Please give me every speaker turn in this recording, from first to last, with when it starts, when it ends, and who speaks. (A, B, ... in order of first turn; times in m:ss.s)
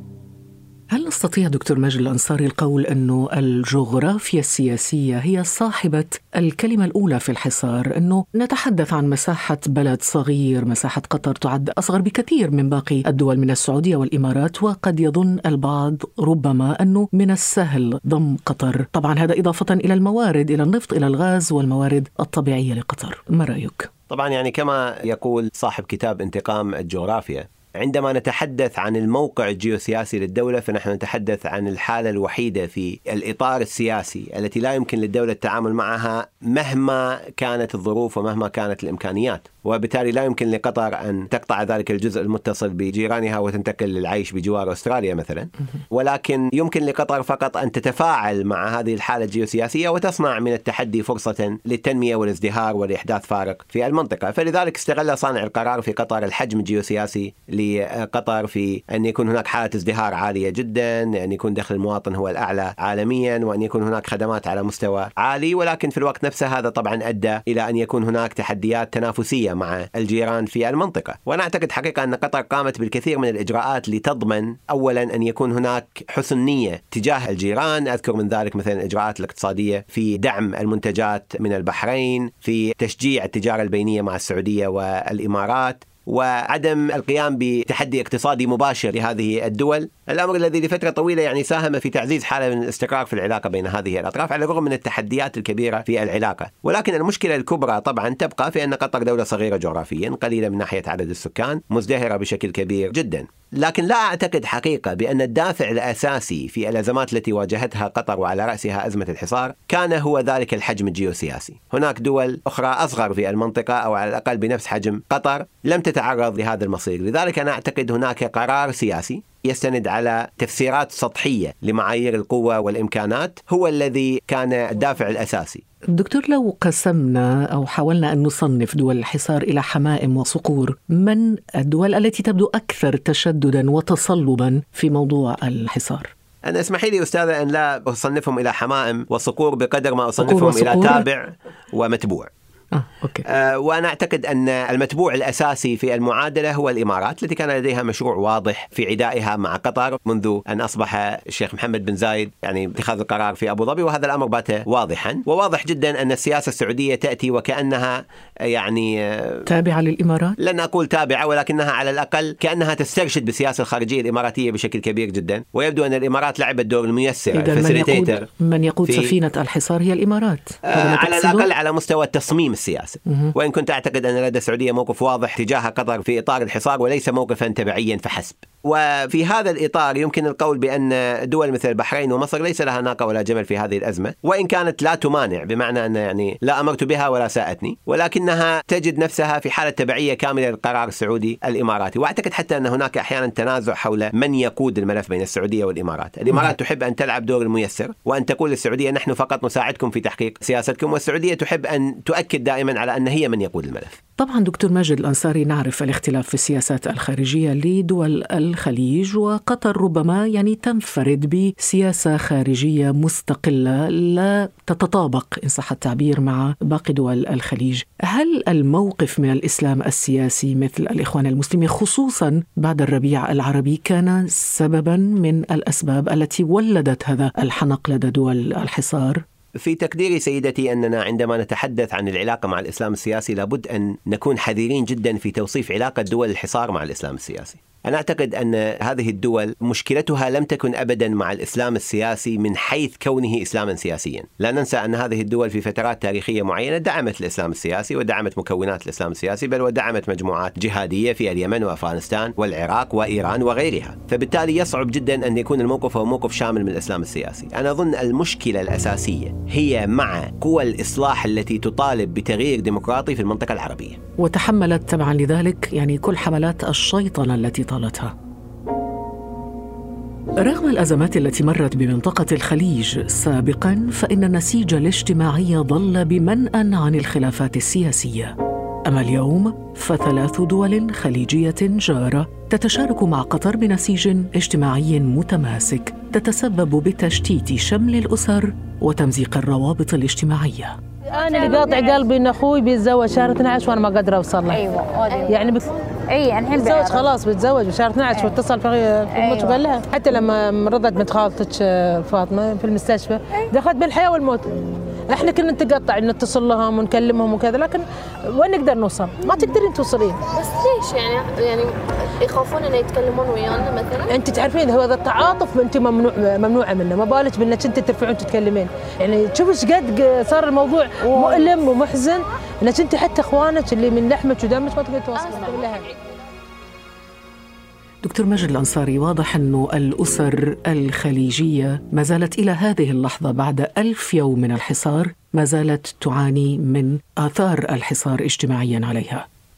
0:00.9-0:23.9 A
0:24.1-2:05.6 B
2:05.9-2:16.1 A
2:16.5-2:22.3 B
2:20.2-2:21.0 A
2:22.7-2:23.2 A
2:23.3-2:38.0 B
2:38.5-2:39.4 B
2:39.5-2:40.4 A
2:40.4-2:48.2 B
2:47.3-2:51.5 A
2:50.7-3:24.0 B
3:24.2-3:49.2 A
3:49.6-4:24.0 B
4:24.2-4:28.1 A
4:30.4-4:38.3 A
4:38.9-4:50.8 A
4:51.1-4:55.7 C
4:51.4-4:51.9 D
4:54.5-4:55.5 D
4:56.1-4:57.1 D
4:56.5-5:04.5 C
4:59.1-4:59.6 D
5:05.1-5:10.2 C
5:10.4-5:11.7 D
5:12.2-5:14.1 D
5:14.1-5:25.9 C
5:28.0-5:39.2 A